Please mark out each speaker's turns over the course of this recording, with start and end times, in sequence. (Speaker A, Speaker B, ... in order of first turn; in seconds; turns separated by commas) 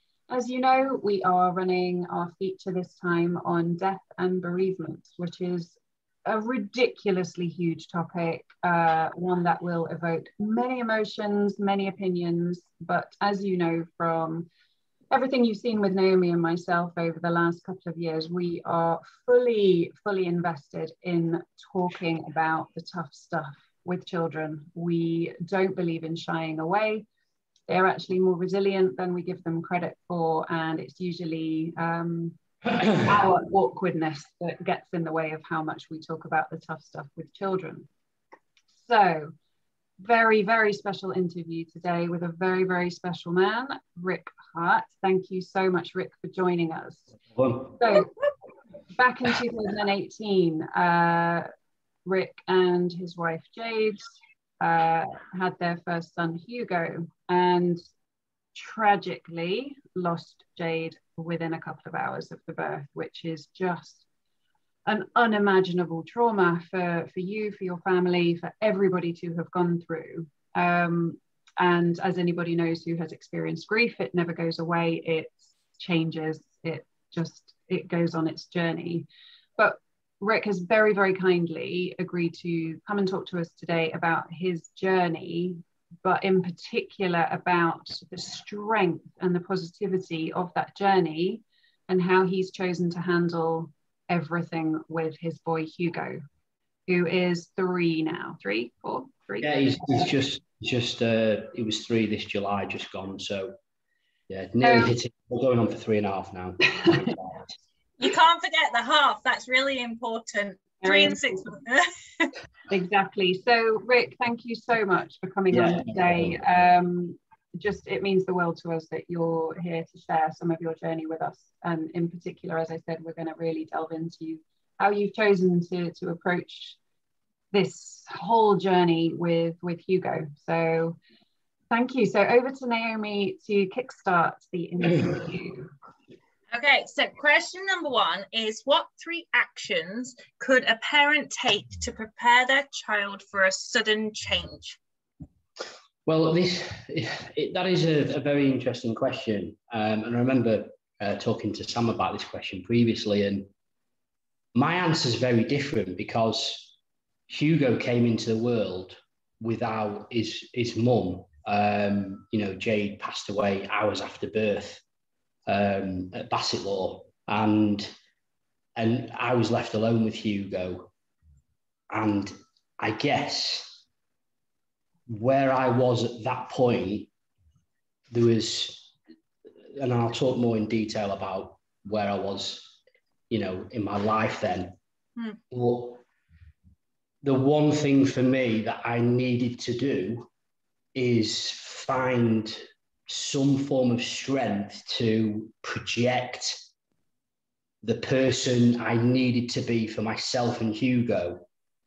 Speaker A: 0.3-14.5, Speaker A: 15.1-27.1, Speaker A: 27.7-32.4, Speaker A: 32.9-37.9, Speaker A: 38.7-39.3, Speaker A: 40.0-47.1, Speaker B: 47.3-47.8, Speaker A: 47.8-48.1, Speaker A: 48.9-51.5, Speaker A: 52.0-57.8, Speaker A: 58.5-64.0, Speaker A: 64.8-79.1, Speaker A: 79.6-96.2, Speaker A: 96.9-99.9, Speaker B: 99.4-103.5, Speaker B: 104.3-107.4, Speaker A: 104.6-104.9, Speaker C: 108.0-112.3, Speaker A: 110.8-111.2, Speaker A: 112.7-126.8, Speaker B: 115.5-116.4, Speaker A: 127.5-131.0, Speaker A: 131.7-135.7, Speaker C: 136.5-144.8, Speaker B: 146.1-153.5, Speaker B: 154.5-156.7, Speaker B: 157.3-164.8, Speaker B: 165.5-167.9, Speaker B: 168.8-170.9, Speaker B: 171.9-173.8, Speaker B: 175.1-177.1, Speaker B: 178.1-178.9, Speaker B: 179.8-182.7, Speaker B: 183.3-184.8, Speaker B: 185.5-186.0, Speaker B: 187.2-190.3, Speaker B: 190.9-196.6, Speaker B: 197.8-201.4